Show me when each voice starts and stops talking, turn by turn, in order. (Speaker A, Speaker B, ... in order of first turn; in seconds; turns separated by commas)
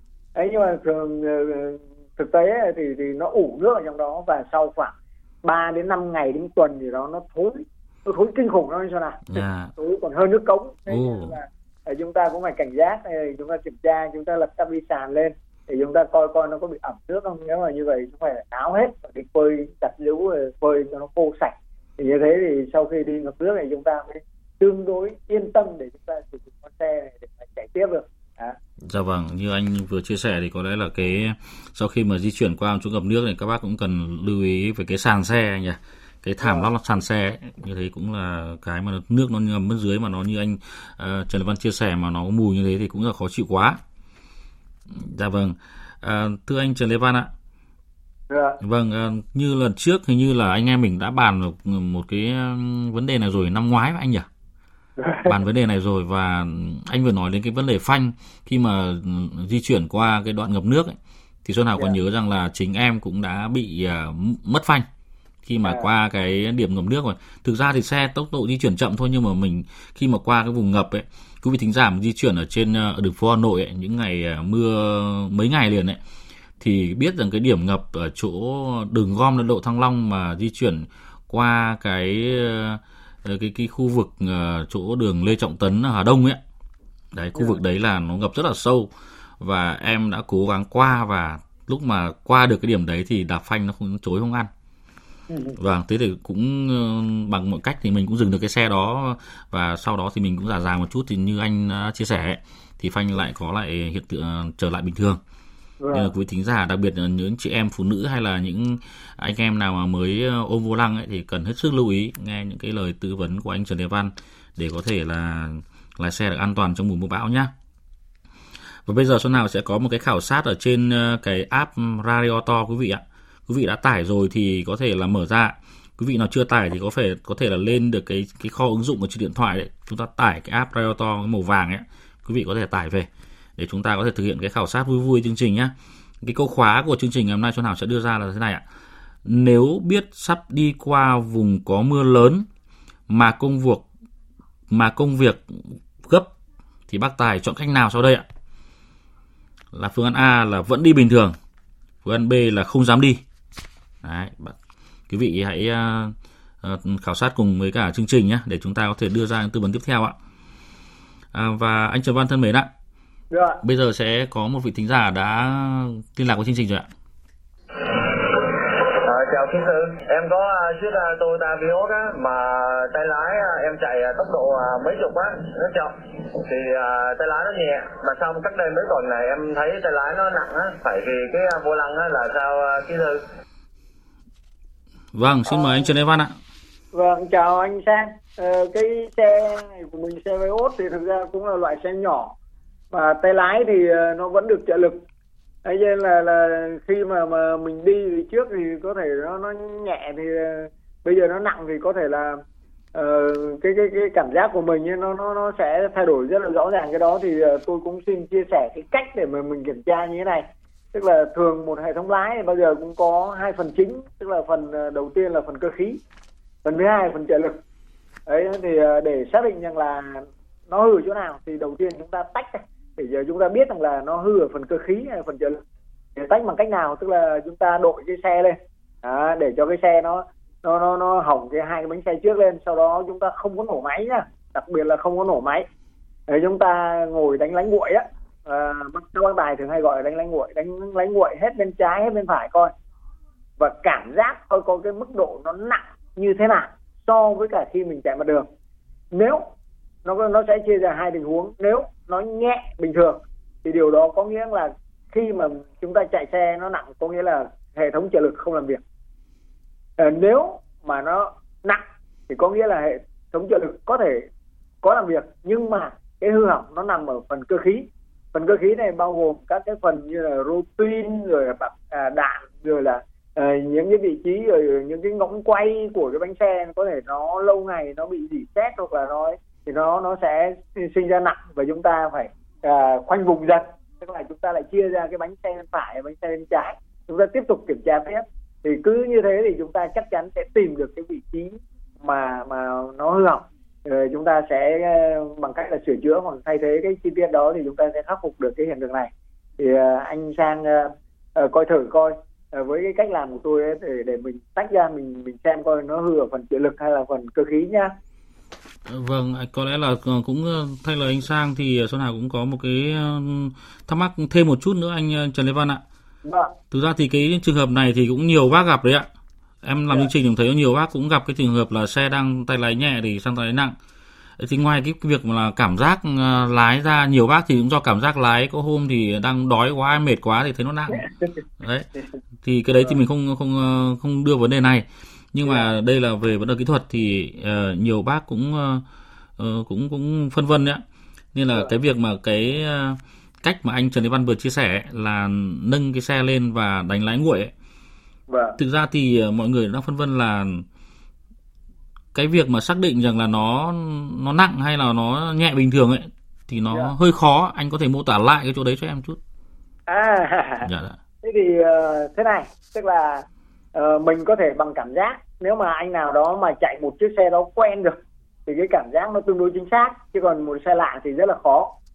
Speaker A: 0.3-28.6, Speaker B: 9.3-9.7, Speaker B: 10.9-11.4, Speaker B: 28.8-43.8, Speaker B: 44.9-47.3, Speaker A: 48.3-48.6, Speaker B: 48.6-54.3, Speaker A: 55.0-55.3, Speaker B: 55.3-64.9, Speaker B: 65.4-76.0, Speaker B: 76.6-86.4, Speaker B: 87.1-94.5, Speaker A: 95.3-95.6, Speaker B: 95.6-105.2, Speaker A: 105.8-106.1, Speaker B: 105.9-117.5, Speaker B: 118.9-138.6, Speaker B: 139.2-142.5, Speaker B: 143.1-143.9, Speaker B: 144.7-146.3, Speaker B: 146.9-148.3, Speaker B: 149.7-151.4, Speaker B: 152.0-153.2, Speaker B: 154.0-154.6, Speaker B: 155.1-160.2, Speaker B: 161.3-162.7, Speaker A: 163.3-163.6, Speaker B: 163.6-166.9, Speaker C: 167.8-183.2, Speaker B: 185.1-186.4, Speaker A: 185.5-185.9, Speaker A: 186.9-192.3, Speaker A: 192.9-195.1, Speaker A: 195.7-202.4, Speaker A: 202.9-216.0, Speaker A: 216.6-217.6, Speaker A: 218.3-225.6, Speaker A: 226.2-235.7, Speaker A: 236.3-242.7, Speaker A: 243.6-248.5, Speaker A: 249.1-249.4, Speaker A: 250.1-258.8, Speaker A: 260.0-264.3, Speaker A: 264.8-307.9, Speaker B: 308.9-315.8, Speaker A: 316.2-316.6, Speaker B: 316.7-319.1, Speaker B: 319.6-323.8, Speaker B: 324.4-331.9, Speaker B: 332.4-338.8, Speaker A: 335.4-335.7, Speaker B: 339.4-340.8, Speaker B: 341.3-347.5, Speaker A: 348.3-348.6, Speaker B: 348.6-350.7, Speaker B: 352.1-359.2, Speaker A: 359.9-360.7, Speaker B: 360.6-361.0, Speaker A: 361.2-371.7